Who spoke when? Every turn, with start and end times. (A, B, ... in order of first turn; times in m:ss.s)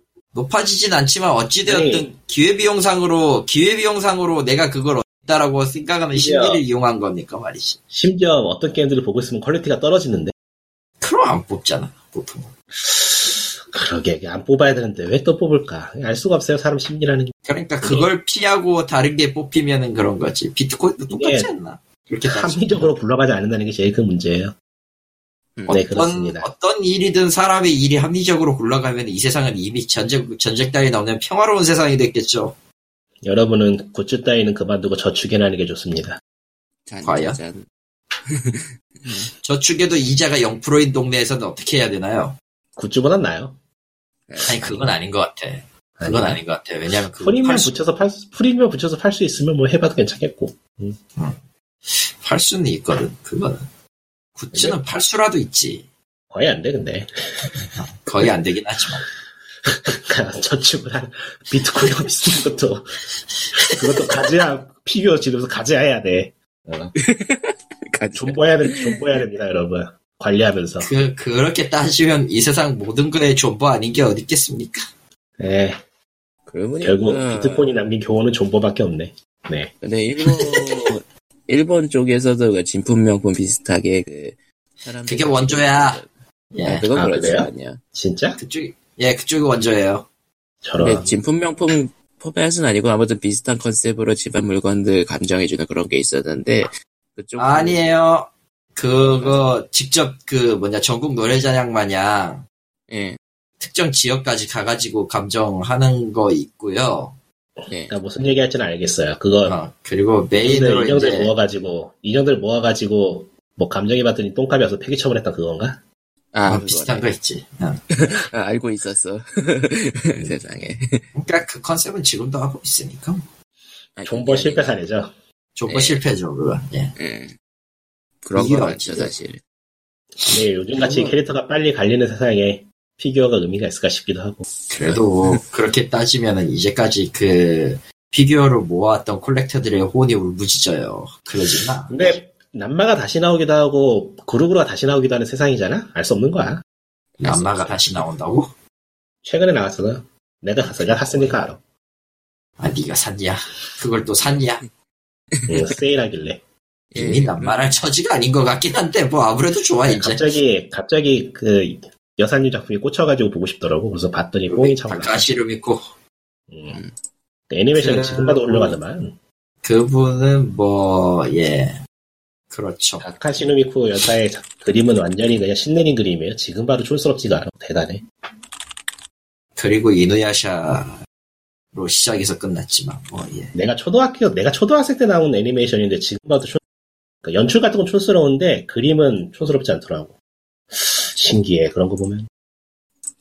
0:00.3-0:07.8 A
0:01.6-0:02.1 B
0:06.1-0:06.6 B
0:07.9-0:10.3 B
0:11.0-0:12.5 A
0:12.8-0:18.1 B
0:17.4-0:22.9 A
0:21.1-0:21.5 B
0:22.2-0:24.5 B
0:25.6-0:25.8 C
0:25.7-0:26.5 B
0:25.8-0:32.5 A
0:33.2-0:36.2 B
0:36.9-0:37.6 C
0:37.0-0:37.4 A
0:38.3-0:39.3 C
0:39.4-0:42.4 A
0:42.8-0:43.6 B
0:44.3-0:44.8 C
0:44.4-0:44.9 B
0:44.4-0:47.7 A
0:46.0-0:46.4 B
0:47.2-0:51.0 B
0:51.2-0:53.6 A
0:54.4-0:55.9 A
0:56.3-0:57.1 B
0:57.8-0:59.0 A
0:59.7-1:03.0 B
1:03.5-1:06.9 B
1:07.0-1:09.2 C
1:08.1-1:10.9 B
1:10.8-1:14.8 A
1:15.4-1:15.8 B
1:16.5-1:17.7 C
1:16.8-1:19.7 B
1:19.8-1:26.1 C
1:20.2-1:20.6 A
1:25.1-1:26.0 A
1:26.5-1:26.9 A
1:26.6-1:27.8 C
1:26.9-1:28.4 B
1:28.4-1:30.1 A
1:30.6-1:31.1 B
1:30.8-1:37.8 C
1:37.4-1:42.4 A
1:39.1-1:39.4 C
1:42.9-1:43.2 C
1:43.6-1:47.2 A
1:47.7-1:47.9 C
1:47.9-1:49.6 B
1:49.4-1:51.3 A
1:50.3-1:55.8 B
1:56.3-1:57.1 C
1:56.5-1:57.9 A
1:57.9-2:01.0 C
2:01.1-2:03.2 A
2:04.0-2:04.8 C
2:04.0-2:05.1 B
2:05.6-2:06.9 A
2:05.7-2:06.0 C
2:07.0-2:07.3 C
2:08.2-2:09.4 C
2:08.3-2:09.1 A
2:10.3-2:14.4 B
2:14.7-2:22.1 A
2:14.7-2:15.4 C
2:21.9-2:26.6 B
2:27.2-2:28.5 A
2:27.2-2:28.0 C
2:29.2-2:31.6 B
2:31.0-2:31.3 A
2:32.6-2:34.6 A
2:35.3-2:35.8 C
2:35.5-2:36.4 B
2:36.9-2:37.6 C
2:36.9-2:40.4 A
2:39.9-2:45.3 B
2:44.5-2:45.8 A
2:46.5-2:46.8 B
2:47.5-2:49.2 B
2:47.7-2:48.8 A
2:49.6-2:51.8 A
2:52.5-2:53.0 A
2:53.0-2:58.0 B
2:59.6-3:01.0 A
3:01.7-3:03.5 A
3:03.5-3:06.6 B
3:07.2-3:10.1 B
3:10.7-3:12.3 B